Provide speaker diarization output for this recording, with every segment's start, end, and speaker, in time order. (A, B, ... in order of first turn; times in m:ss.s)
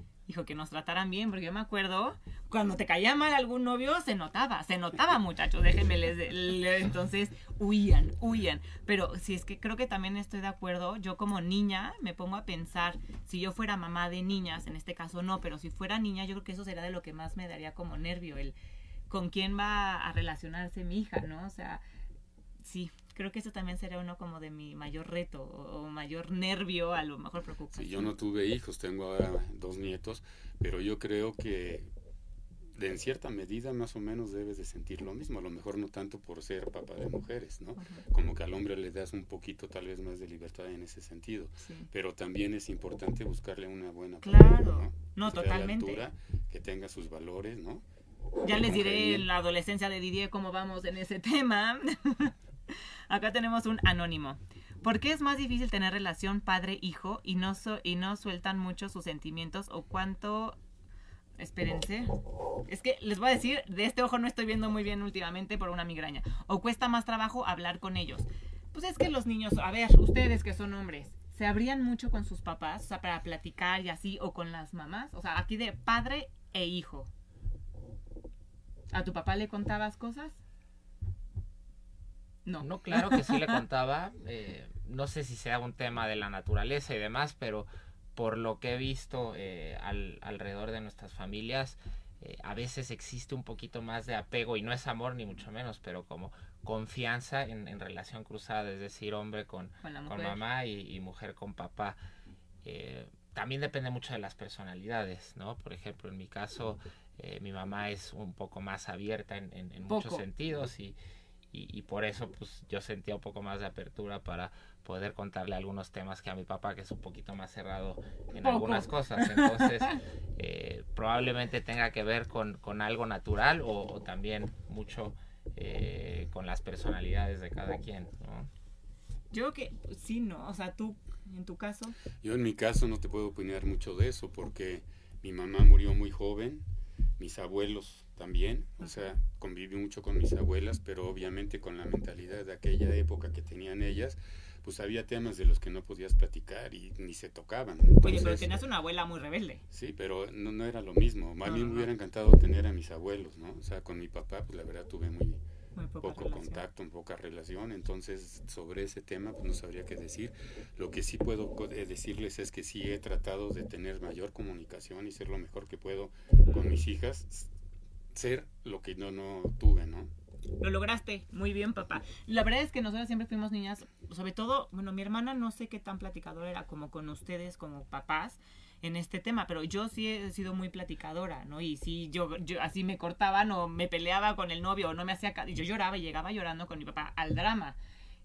0:00.3-0:18.6 A
0:19.1-0:21.8 A
0:22.6-0:28.2 A
0:27.7-0:31.9 B
0:32.8-0:47.8 B
0:37.8-0:38.0 A
0:41.6-0:41.9 A
0:44.2-0:46.0 A
0:48.4-1:00.6 A
0:48.4-0:49.3 B
1:01.4-1:17.1 A
1:18.9-1:20.4 A
1:22.4-1:23.6 A
1:22.6-1:42.0 C
1:39.8-1:40.4 A
1:42.6-1:51.0 C
1:49.9-1:50.2 A
1:51.5-2:08.5 C
1:58.4-2:00.0 A
2:09.3-2:12.0 A
2:12.2-2:16.6 B
2:17.2-2:28.6 B
2:28.0-2:29.6 A
2:29.7-2:35.4 B
2:31.4-2:31.9 A
2:35.7-2:36.6 A
2:36.0-2:47.5 B
2:46.4-2:46.8 A
2:48.1-2:50.1 B
2:50.6-3:07.8 A